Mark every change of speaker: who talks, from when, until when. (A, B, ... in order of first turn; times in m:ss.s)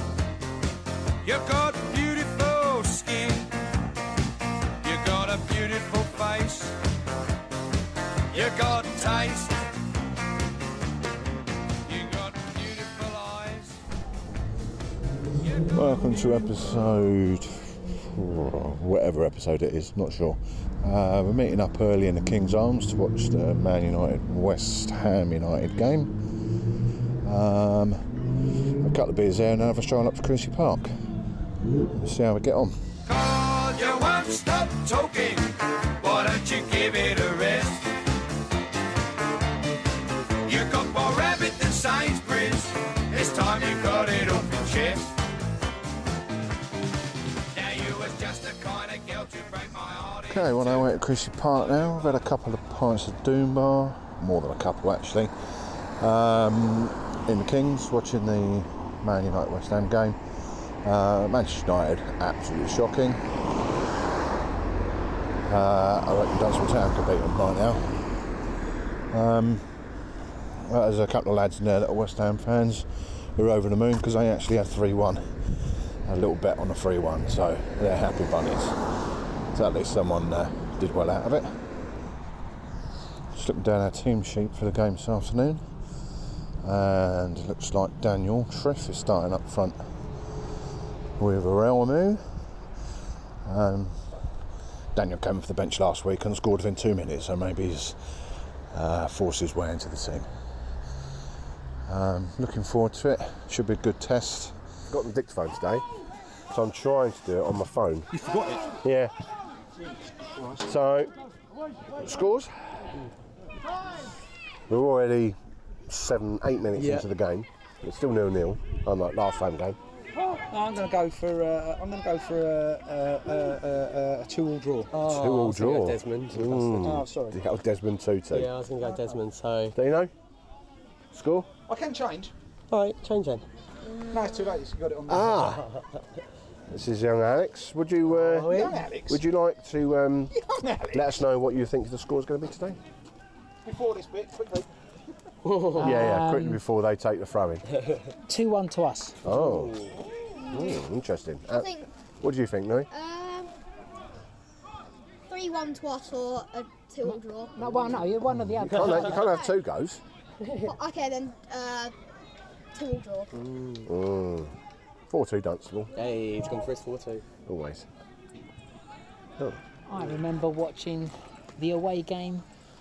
0:01.2-0:03.4 A
0:04.8-0:06.7 A
0:08.3-0:09.5 A
0:11.9-0:13.7 A
0:15.6-0:26.1 B
0:27.2-0:28.0 B
0:28.8-0:30.9 B
0:32.0-0:32.7 B
0:33.1-0:35.5 A
0:36.0-0:37.8 A
0:40.5-0:45.1 A
0:47.6-0:50.2 A
0:50.3-0:55.3 B
0:56.0-1:00.2 B
1:00.8-1:03.2 B
1:05.5-1:08.0 B
1:09.1-1:09.6 B
1:10.6-1:15.2 B
1:16.1-1:18.7 B
1:19.5-1:21.4 B
1:23.3-1:25.6 B
1:26.6-1:29.8 B
1:31.2-1:32.2 B
1:33.5-1:33.9 B
1:35.0-1:38.0 B
1:38.7-1:40.2 B
1:41.9-1:44.6 B
1:44.9-1:45.8 C
1:46.5-1:48.1 C
1:48.1-1:48.7 D
1:48.8-1:49.1 C
1:50.4-1:50.6 D
1:50.6-1:51.1 C
1:51.9-1:52.5 C
1:54.7-1:55.4 C
1:55.9-1:59.8 C
1:56.8-1:57.1 E
2:00.2-2:05.0 D
2:04.9-2:07.0 E
2:05.0-2:08.5 C
2:06.8-2:07.4 D
2:08.3-2:09.8 E
2:09.7-2:10.1 C
2:11.1-2:11.5 C
2:11.7-2:12.3 D
2:12.7-2:13.4 E
2:13.9-2:14.3 F
2:14.1-2:15.5 D
2:15.1-2:15.7 C
2:16.7-2:20.3 C
2:18.1-2:18.8 E
2:18.6-2:19.2 D
2:20.4-2:21.1 D
2:20.9-2:22.8 C
2:23.6-2:24.7 D
2:25.5-2:25.8 E
2:25.7-2:26.6 G
2:25.7-2:27.6 C
2:28.3-2:29.2 G
2:29.2-2:29.8 C
2:30.4-2:30.8 F
2:30.5-2:32.9 C
2:31.5-2:31.9 F
2:32.9-2:33.5 F
2:35.3-2:37.7 F
2:37.0-2:39.3 G
2:38.5-2:40.0 C
2:39.0-2:39.6 F
2:40.6-2:41.9 F
2:42.7-2:43.4 F
2:43.5-2:43.8 E
2:43.8-2:44.5 C
2:45.1-2:45.9 C
2:46.0-2:47.2 E
2:47.5-2:47.8 C
2:49.9-2:52.4 G